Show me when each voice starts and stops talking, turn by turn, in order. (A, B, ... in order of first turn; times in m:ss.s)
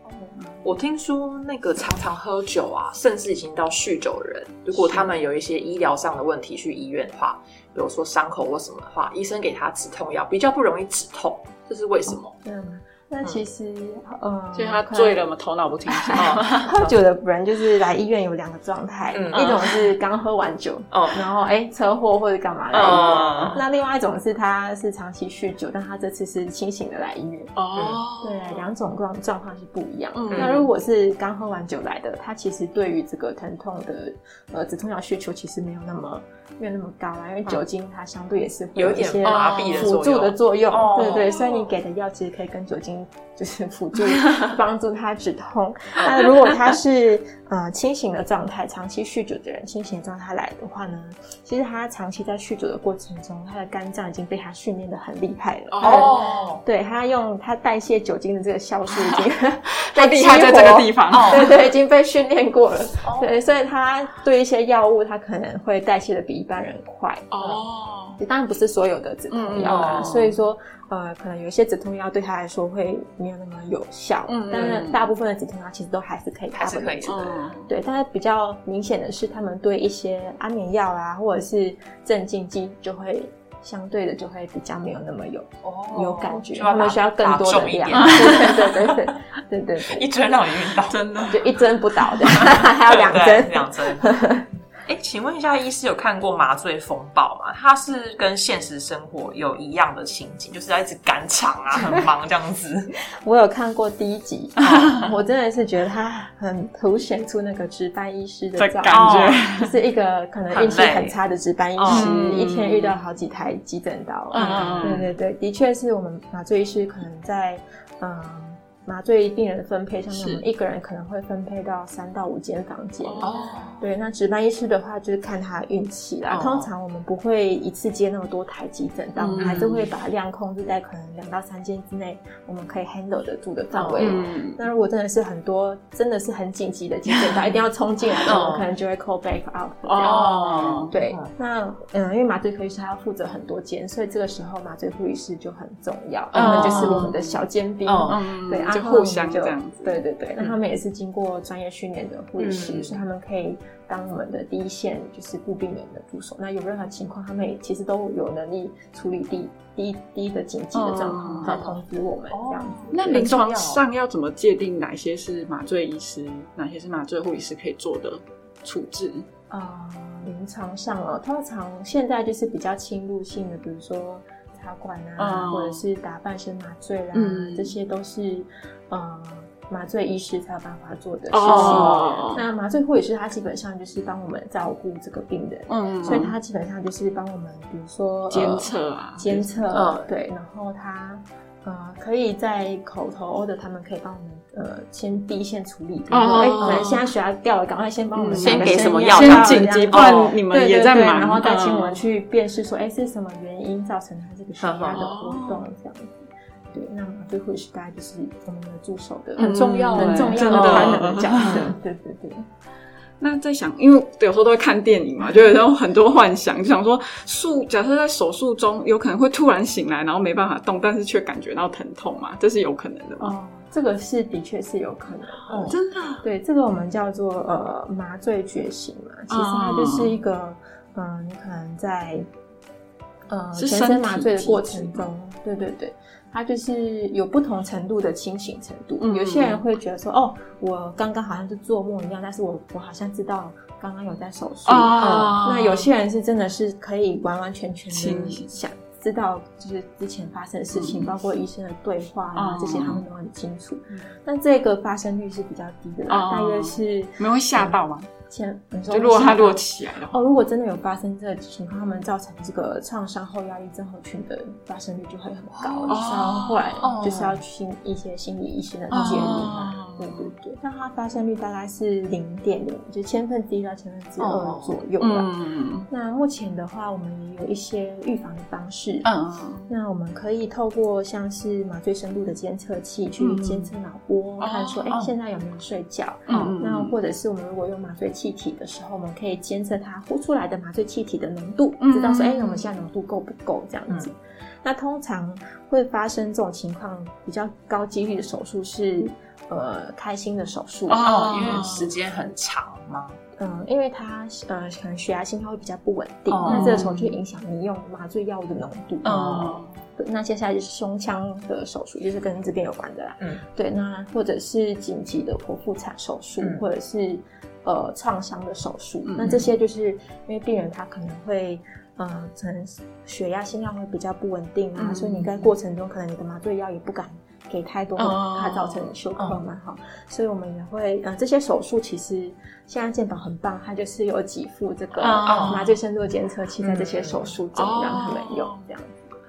0:00.6-0:12.4 A
0:04.7-0:05.1 B
0:12.1-0:15.3 B
0:14.6-0:16.8 C
0:15.9-0:27.5 B
0:16.1-0:16.9 A
0:19.1-0:19.7 A
0:20.9-0:21.2 A
0:22.7-0:23.6 A
0:22.8-0:23.2 C
0:27.6-0:28.6 C
0:27.7-0:28.0 A
0:28.2-1:07.3 B
0:30.1-0:30.6 C
0:30.3-0:30.6 A
0:38.7-0:41.6 A
0:39.2-0:39.9 C
0:46.0-0:46.2 A
0:55.7-0:56.4 C
0:55.8-0:56.6 A
0:59.7-1:01.6 C
1:01.1-1:01.5 A
1:03.0-1:03.3 A
1:07.3-1:08.2 C
1:08.2-1:30.1 B
1:09.3-1:10.3 C
1:09.6-1:10.3 A
1:14.3-1:15.1 C
1:16.5-1:17.2 A
1:17.0-1:17.7 C
1:25.6-1:28.9 A
1:27.9-1:28.6 C
1:29.8-1:31.2 A
1:30.9-1:31.4 C
1:31.3-1:34.5 B
1:32.4-1:34.1 A
1:34.9-1:42.9 A
1:43.2-2:43.3 B
1:44.6-1:45.0 A
1:44.6-1:45.0 C
1:48.6-1:49.8 C
1:48.9-1:49.4 A
1:50.5-1:51.2 A
1:51.8-1:52.1 A
1:51.9-1:52.9 C
1:54.3-1:55.0 C
1:54.3-1:55.1 A
2:00.1-2:00.4 C
2:03.0-2:03.8 C
2:03.2-2:03.7 A
2:06.3-2:06.7 A
2:09.2-2:09.9 C
2:09.4-2:09.7 A
2:13.7-2:14.2 A
2:14.0-2:14.6 C
2:18.2-2:18.7 A
2:19.8-2:20.9 C
2:20.0-2:21.3 A
2:26.3-2:27.2 A
2:26.3-2:27.2 C
2:27.8-2:28.2 A
2:28.1-2:30.0 C
2:32.4-2:33.0 A
2:40.7-2:41.6 C
2:41.4-2:41.8 A
2:42.3-2:43.8 A
2:42.9-2:49.2 C
2:49.5-3:32.4 B
2:55.2-2:55.8 C
2:57.1-2:57.7 C
3:01.3-3:02.4 C
3:01.4-3:02.1 A
3:05.7-3:06.3 C
3:08.3-3:09.6 C
3:09.7-3:10.0 A
3:16.1-3:17.0 C
3:16.6-3:16.9 A
3:18.2-3:22.0 C
3:18.4-3:20.3 A
3:24.6-3:25.0 A
3:24.9-3:25.6 C
3:29.4-3:31.7 C
3:29.9-3:31.7 A
3:33.2-3:43.3 C
3:43.2-3:52.3 B
3:45.5-3:45.8 A
3:45.7-3:46.2 C
3:49.3-3:50.2 C
3:53.3-4:35.3 B
3:53.5-3:55.1 C
3:59.0-3:59.6 C
4:04.7-4:05.9 C
4:07.9-4:08.5 C
4:10.7-4:11.1 C
4:12.4-4:13.0 C
4:16.1-4:18.1 C
4:18.9-4:20.2 C
4:25.6-4:26.0 A
4:25.9-4:26.9 C
4:26.8-4:27.4 A
4:28.9-4:30.3 C
4:34.2-4:34.8 A
4:35.0-4:35.9 C
4:35.9-4:39.1 B
4:39.0-4:39.7 C
4:39.7-5:01.1 B
4:43.2-4:43.7 C
4:44.4-4:45.0 C
4:46.3-4:46.9 C
4:46.3-4:46.5 A
4:51.8-4:52.7 C
5:00.9-5:01.9 C
5:01.0-5:03.2 A
5:03.4-5:39.1 B
5:06.3-5:06.9 A
5:06.5-5:07.1 C
5:09.0-5:09.8 C
5:19.0-5:19.4 C
5:24.8-5:25.3 C
5:28.0-5:28.9 C
5:35.0-5:35.8 C
5:35.2-5:35.6 A
5:36.6-5:37.3 A
5:37.5-5:38.7 C